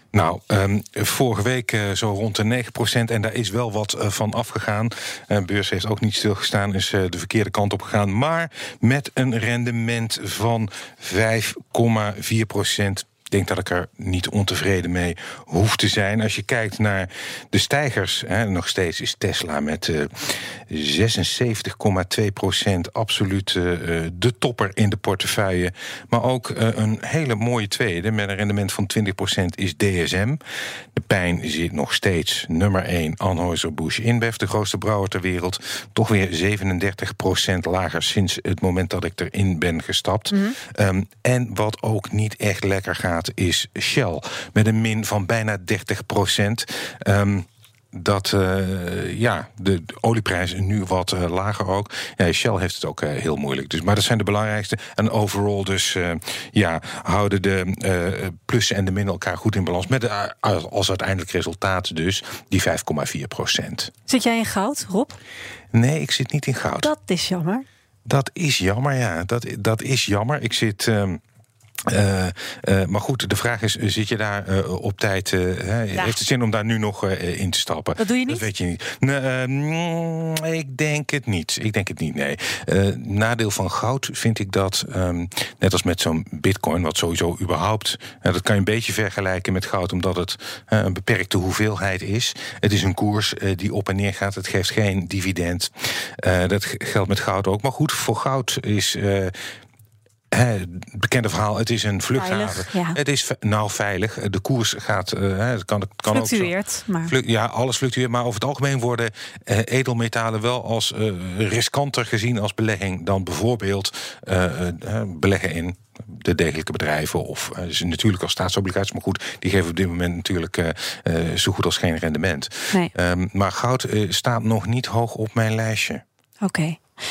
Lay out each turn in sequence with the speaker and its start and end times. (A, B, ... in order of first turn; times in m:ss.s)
0:00.1-0:30.4 A
0:31.0-1:03.9 A
1:04.0-1:05.2 B
1:05.7-1:06.9 A
1:06.8-1:07.6 B
1:08.1-1:11.2 A
1:11.9-1:39.3 A
1:18.0-1:18.4 B
1:40.3-1:46.5 A
1:42.1-1:43.0 B
1:46.1-1:47.1 B
1:47.0-2:06.0 A
2:06.4-2:06.8 B